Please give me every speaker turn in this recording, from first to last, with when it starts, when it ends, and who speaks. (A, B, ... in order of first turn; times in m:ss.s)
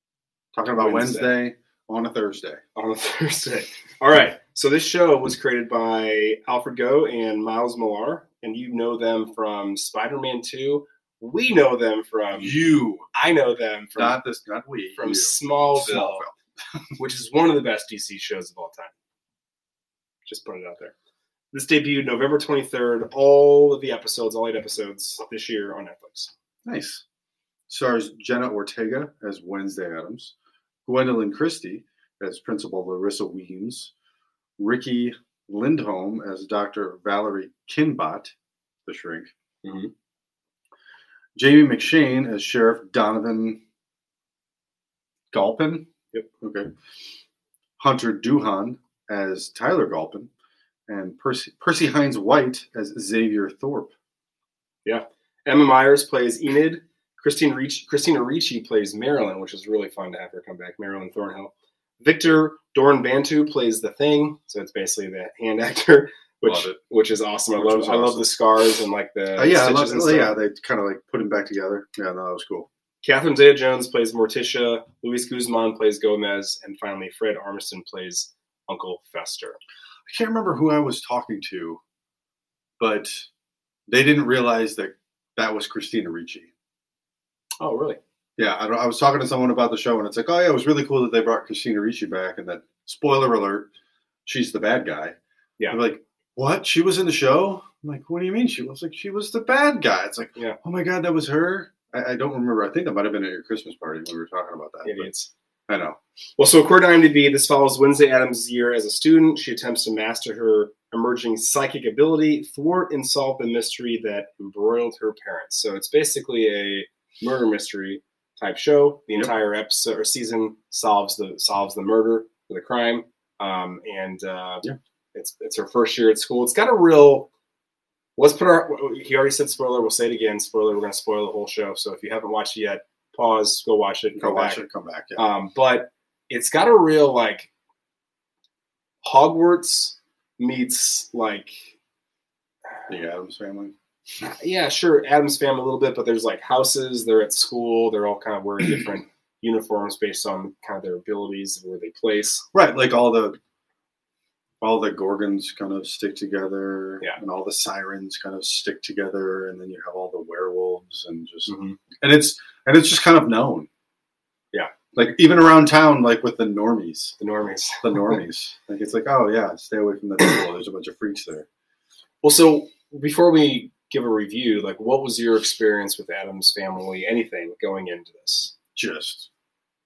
0:00.5-0:02.6 A
0:00.7-0:01.3 B
0:02.7-0:14.2 B
0:12.3-0:13.1 A
0:14.0-0:16.3 A
0:15.0-0:16.2 B
0:17.0-0:18.9 B
0:20.2-0:20.9 B
0:21.5-0:26.3 B
0:26.6-0:27.0 A
0:27.7-0:30.3 A
0:30.8-0:33.9 A
0:34.6-0:38.3 A
0:38.8-0:39.3 A
0:39.6-0:39.9 B
0:41.4-0:43.6 A
0:45.3-0:45.9 A
0:46.4-0:46.7 A
0:47.8-0:50.3 A
0:50.9-0:53.9 A
0:54.8-1:10.3 B
1:06.4-1:06.8 A
1:07.6-1:08.2 A
1:09.4-1:12.7 A
1:13.0-1:19.6 B
1:20.1-1:21.8 A
1:22.8-1:23.3 A
1:23.9-1:26.5 A
1:27.6-1:28.0 B
1:28.4-1:33.7 A
1:34.2-1:35.2 A
1:35.7-1:45.1 A
1:44.8-1:45.3 B
1:45.7-1:46.0 A
1:46.4-2:07.3 B
2:08.2-2:14.6 B
2:14.1-2:15.3 A
2:15.2-2:17.5 B
2:19.0-2:21.7 B
2:22.9-2:23.7 A
2:24.2-2:32.4 B
2:32.5-2:33.4 A
2:34.6-2:43.7 A
2:41.5-2:41.8 B
2:44.9-2:47.1 A
2:47.2-2:48.2 B
2:47.8-2:51.4 A
2:52.2-2:58.5 B
2:58.7-2:59.3 A